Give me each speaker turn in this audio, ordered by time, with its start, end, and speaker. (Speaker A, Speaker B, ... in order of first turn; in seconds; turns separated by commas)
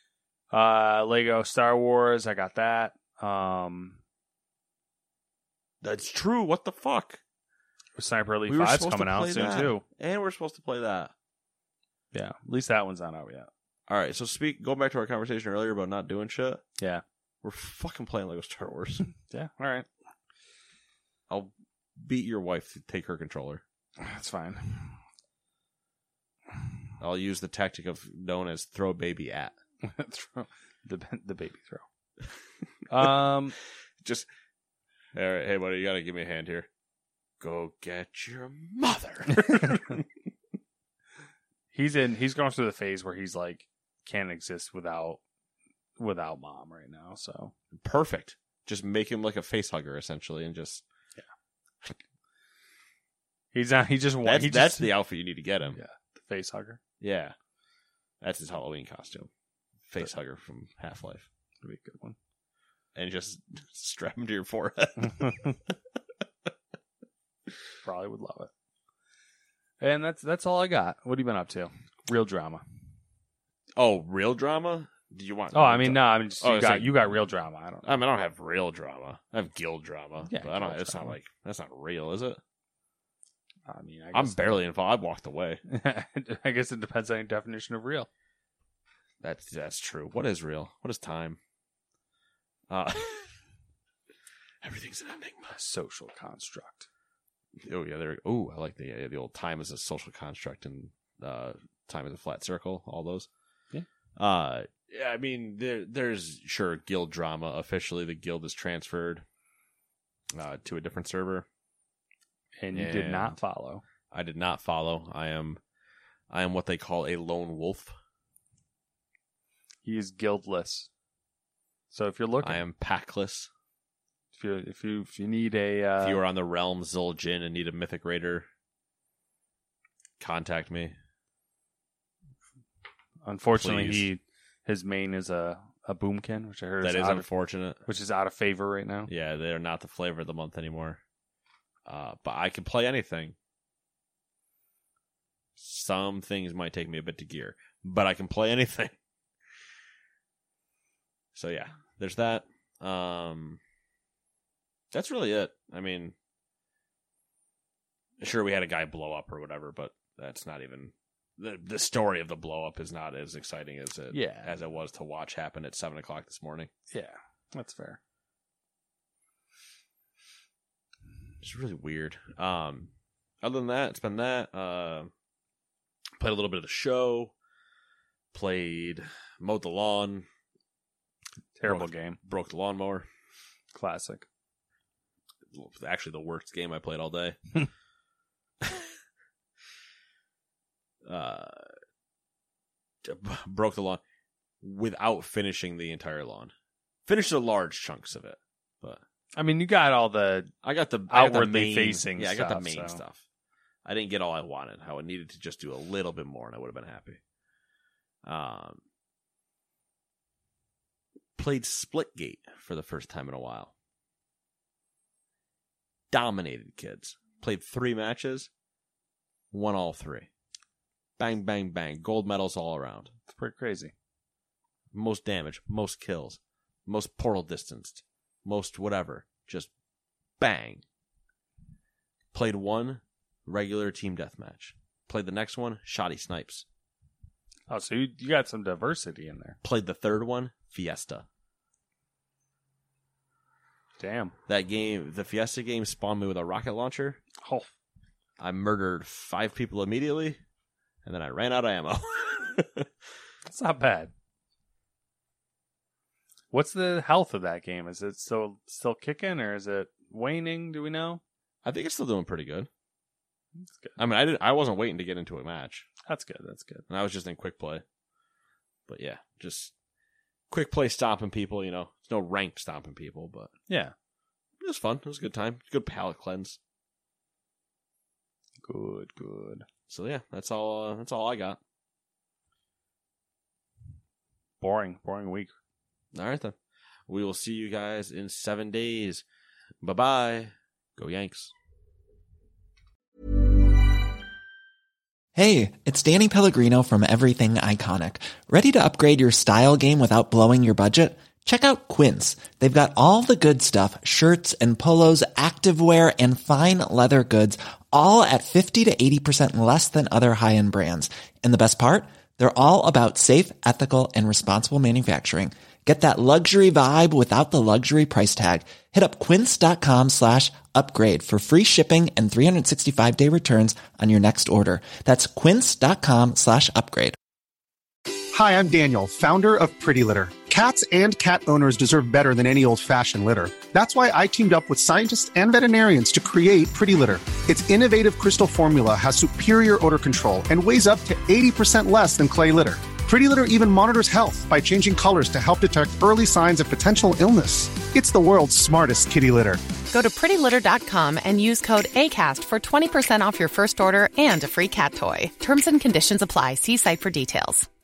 Speaker A: 0.5-4.0, Speaker B: 5.8-7.2, Speaker A: 8.0-9.8, Speaker B: 8.5-11.1, Speaker A: 12.1-13.5, Speaker B: 13.9-16.6, Speaker B: 17.4-19.0, Speaker A: 19.3-19.9, Speaker B: 21.3-23.6, Speaker A: 24.0-25.0, Speaker B: 27.0-29.5, Speaker A: 29.8-31.8, Speaker A: 32.9-33.5, Speaker B: 35.1-36.7, Speaker B: 37.4-40.0, Speaker A: 41.7-45.2, Speaker A: 46.0-47.5, Speaker B: 47.8-50.8, Speaker A: 53.5-54.9, Speaker B: 54.2-55.8, Speaker A: 55.7-56.8, Speaker B: 57.0-57.3, Speaker B: 58.2-59.3, Speaker B: 59.9-61.2, Speaker A: 61.6-62.1, Speaker B: 62.9-65.5, Speaker A: 67.8-68.5, Speaker A: 69.8-72.6, Speaker B: 73.8-77.1, Speaker A: 75.5-77.9, Speaker B: 77.8-82.4, Speaker A: 80.3-81.1, Speaker A: 83.7-84.6, Speaker B: 84.1-85.6, Speaker A: 85.7-88.1, Speaker B: 89.2-91.4, Speaker B: 92.7-93.3, Speaker B: 94.6-95.6, Speaker A: 95.5-96.9, Speaker B: 97.6-103.3, Speaker B: 104.2-109.2, Speaker B: 110.3-111.5, Speaker A: 112.6-113.8, Speaker B: 112.7-113.3, Speaker B: 114.1-115.6, Speaker B: 116.3-117.9, Speaker A: 119.8-120.9, Speaker A: 121.9-122.6, Speaker B: 122.4-123.5, Speaker A: 124.3-126.2, Speaker B: 126.0-128.5, Speaker B: 130.2-130.9, Speaker A: 133.2-137.2, Speaker B: 133.5-134.1, Speaker B: 136.8-137.8, Speaker A: 137.8-139.1, Speaker B: 139.1-141.0, Speaker B: 141.8-143.3, Speaker B: 145.6-148.9, Speaker B: 151.3-153.6, Speaker B: 154.9-156.1, Speaker B: 158.2-166.7, Speaker A: 164.1-164.6, Speaker A: 166.9-168.0, Speaker B: 171.4-172.9, Speaker B: 173.4-175.1, Speaker B: 176.2-177.3, Speaker B: 178.3-180.2, Speaker A: 181.6-182.2, Speaker B: 181.7-183.1, Speaker A: 183.7-184.2, Speaker B: 185.5-187.4, Speaker B: 191.0-191.7, Speaker B: 193.0-194.0, Speaker B: 194.6-196.5, Speaker B: 197.1-199.0, Speaker A: 199.3-200.5, Speaker B: 200.6-203.2, Speaker A: 201.1-203.0, Speaker B: 203.8-207.2, Speaker B: 208.2-208.8, Speaker B: 211.4-213.7, Speaker B: 216.1-218.5, Speaker B: 219.5-220.3, Speaker B: 221.2-223.1, Speaker A: 223.3-223.9, Speaker B: 224.9-229.7, Speaker B: 230.4-230.8, Speaker B: 232.3-236.6, Speaker A: 237.7-239.6, Speaker B: 239.6-241.2, Speaker A: 244.0-244.3, Speaker B: 244.5-247.2, Speaker A: 247.4-247.7, Speaker B: 248.4-250.4, Speaker B: 251.0-252.9, Speaker A: 253.4-254.1, Speaker A: 256.5-261.2, Speaker B: 261.6-262.7, Speaker A: 263.7-263.9, Speaker B: 264.0-265.9, Speaker A: 266.1-266.8, Speaker B: 266.9-267.8, Speaker B: 268.9-269.7, Speaker B: 270.5-273.5, Speaker A: 273.7-273.9, Speaker B: 274.6-276.6, Speaker A: 278.6-279.6, Speaker B: 279.9-281.6, Speaker A: 284.6-285.5, Speaker B: 286.1-286.5, Speaker B: 287.1-289.2, Speaker B: 289.8-291.5, Speaker C: 295.3-327.2, Speaker D: 328.3-349.6, Speaker E: 349.9-357.7